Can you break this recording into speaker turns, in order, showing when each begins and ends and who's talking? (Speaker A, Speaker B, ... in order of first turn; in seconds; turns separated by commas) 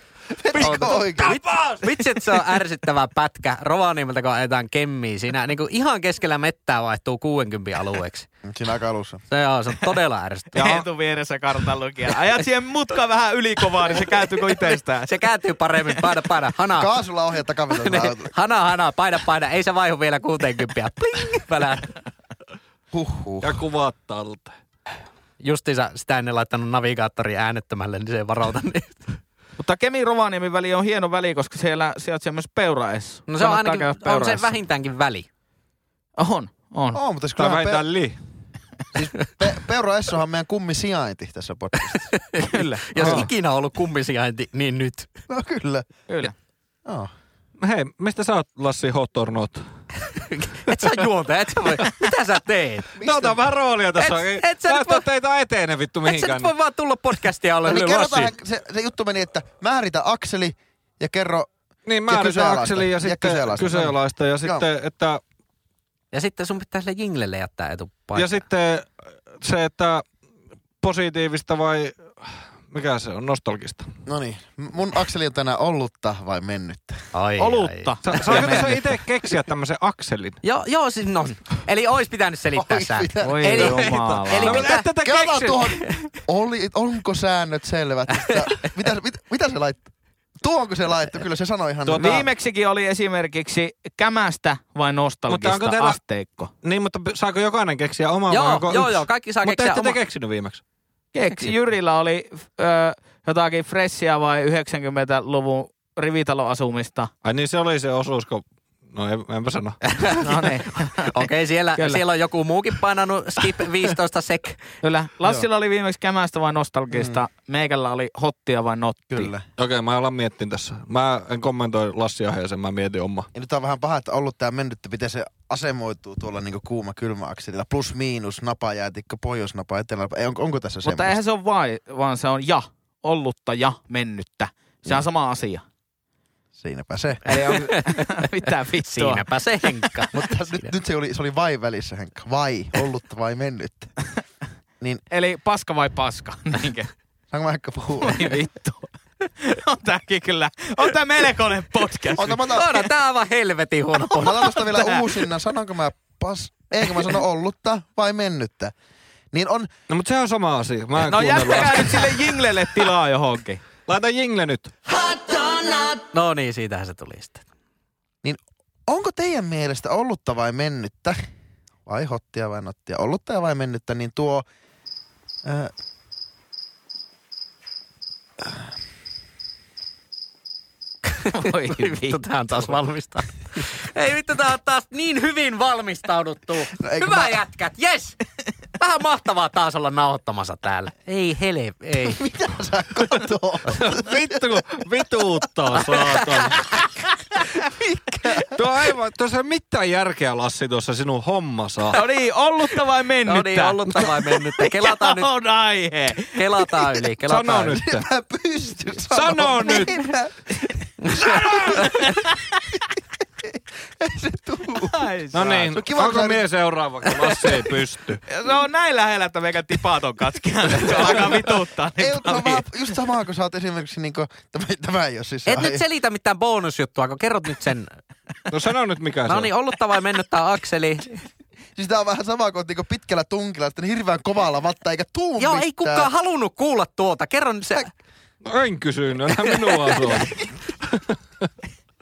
Speaker A: 0.3-1.4, Speaker B: 0.5-2.4, Speaker C: 0.5-8.3, Speaker A: 8.4-9.2, Speaker C: 9.3-10.7, Speaker B: 10.6-10.8, Speaker D: 10.6-15.2, Speaker C: 15.0-16.9, Speaker A: 16.8-18.3, Speaker C: 17.7-21.9, Speaker A: 22.9-23.6, Speaker B: 23.4-24.5, Speaker C: 25.4-29.2, Speaker D: 29.6-34.5, Speaker C: 33.3-35.3, Speaker D: 36.2-37.0, Speaker A: 36.9-37.9, Speaker B: 37.4-38.2, Speaker A: 38.9-42.1, Speaker C: 41.9-45.1, Speaker D: 42.4-42.9, Speaker B: 43.0-43.3, Speaker A: 45.3-45.9, Speaker D: 46.1-46.3, Speaker A: 46.8-47.1, Speaker B: 47.6-49.6, Speaker C: 50.1-52.9, Speaker A: 53.0-53.4, Speaker B: 53.0-56.5, Speaker C: 54.0-55.0, Speaker C: 56.0-58.3, Speaker A: 57.6-61.5, Speaker B: 61.9-65.2, Speaker A: 62.1-64.6, Speaker C: 66.1-68.4, Speaker B: 68.2-70.0, Speaker B: 70.8-73.9, Speaker A: 74.0-77.0, Speaker C: 77.1-78.8, Speaker D: 77.4-78.8, Speaker B: 78.0-80.4, Speaker C: 80.4-84.9, Speaker A: 82.5-83.9, Speaker D: 83.2-84.7, Speaker B: 84.2-85.6, Speaker A: 84.5-89.8, Speaker A: 90.4-92.2, Speaker B: 91.8-92.3, Speaker D: 92.0-96.5, Speaker B: 95.3-96.0, Speaker B: 96.6-100.6, Speaker C: 98.3-100.0, Speaker D: 101.1-107.1, Speaker B: 107.2-109.8, Speaker C: 109.9-110.4, Speaker D: 110.2-111.3, Speaker C: 111.0-114.6, Speaker D: 114.8-119.3, Speaker A: 116.9-117.2, Speaker A: 119.1-119.4, Speaker B: 119.6-123.3, Speaker A: 123.3-131.2, Speaker D: 130.8-135.6, Speaker A: 136.6-137.2, Speaker D: 137.2-139.9, Speaker C: 137.4-138.3, Speaker C: 138.8-140.7, Speaker A: 140.1-143.9, Speaker D: 145.1-146.9, Speaker A: 147.3-148.3, Speaker D: 148.0-152.7, Speaker A: 152.2-152.8, Speaker C: 152.5-154.6, Speaker A: 154.1-158.7, Speaker D: 154.4-155.1, Speaker A: 159.3-159.7, Speaker B: 159.9-162.4, Speaker D: 161.0-163.6, Speaker B: 163.9-164.7, Speaker C: 165.0-167.4, Speaker A: 168.2-171.2, Speaker A: 171.8-174.4, Speaker A: 175.4-175.7, Speaker D: 181.3-182.2, Speaker C: 181.4-188.2, Speaker A: 186.8-187.4, Speaker C: 188.8-192.2, Speaker A: 192.0-194.4, Speaker B: 193.7-196.7, Speaker A: 197.6-198.5, Speaker B: 198.5-202.0, Speaker D: 201.9-206.9, Speaker C: 203.2-205.3, Speaker C: 206.3-207.8, Speaker B: 207.2-208.0, Speaker A: 207.7-211.6, Speaker B: 209.1-210.1, Speaker C: 211.0-212.2, Speaker B: 211.2-211.9, Speaker D: 212.0-212.4, Speaker A: 213.4-215.1, Speaker D: 214.8-215.7, Speaker B: 215.3-218.2, Speaker A: 215.7-216.4, Speaker D: 218.3-222.6, Speaker A: 220.8-221.4, Speaker A: 222.0-225.8, Speaker C: 225.4-228.0, Speaker B: 228.5-229.5, Speaker C: 229.2-231.2, Speaker A: 231.8-236.1, Speaker C: 235.4-237.9, Speaker B: 238.4-241.5, Speaker C: 239.4-240.3